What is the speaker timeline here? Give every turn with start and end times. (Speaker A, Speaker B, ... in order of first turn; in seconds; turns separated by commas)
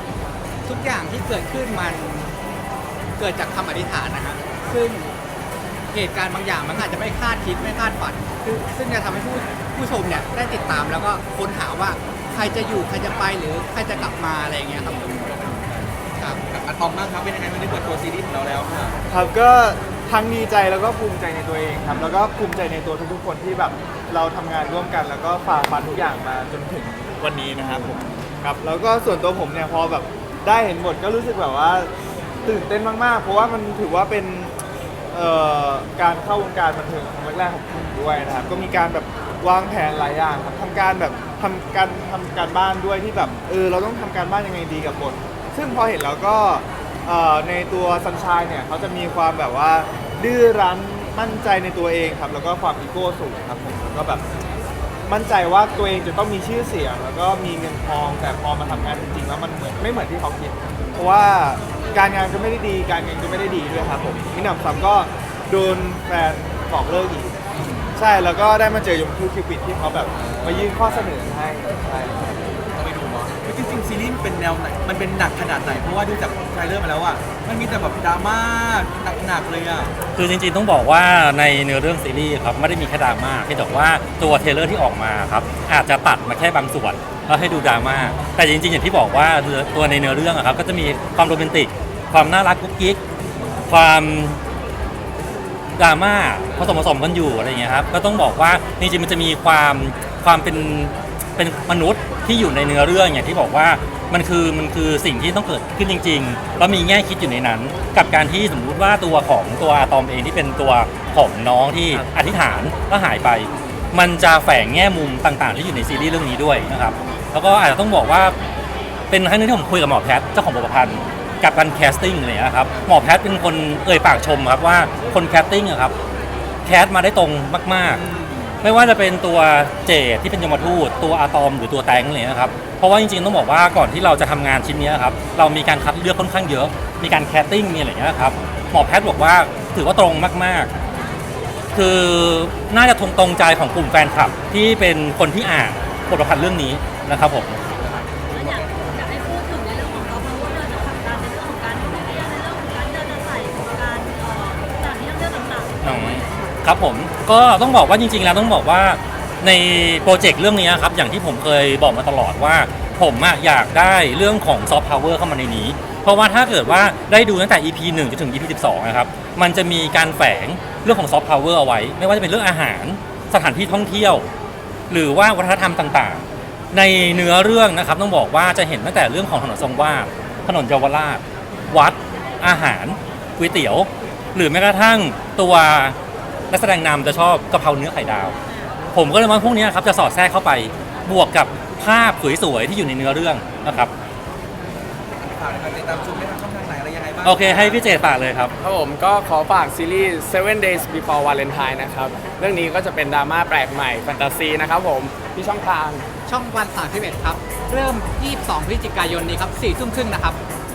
Speaker A: 0.6-2.3, Speaker A: 3.2-5.1, Speaker A: 5.9-15.1, Speaker B: 14.8-19.0, Speaker A: 16.2-16.4, Speaker C: 19.1-31.9, Speaker B: 21.9-22.1, Speaker B: 27.6-28.2, Speaker C: 32.5-34.5, Speaker C: 35.1-54.2, Speaker C: 55.0-67.4, Speaker B: 58.6-59.0, Speaker B: 67.5-67.9, Speaker C: 68.0-71.8, Speaker B: 70.1-79.9, Speaker D: 80.1-93.0, Speaker D: 93.7-94.4, Speaker D: 95.8-118.3, Speaker D: 119.1-125.9, Speaker B: 122.7-123.0, Speaker D: 126.6-128.0, Speaker B: 127.9-128.6, Speaker D: 128.6-140.7, Speaker D: 141.7-147.6, Speaker B: 147.8-148.7, Speaker E: 148.3-156.4, Speaker D: 155.8-174.3, Speaker D: 174.9-186.0, Speaker D: 186.5-188.3, Speaker D: 188.9-193.9, Speaker B: 195.1-198.0, Speaker D: 197.2-198.5, Speaker F: 198.6-206.1, Speaker A: 206.2-210.4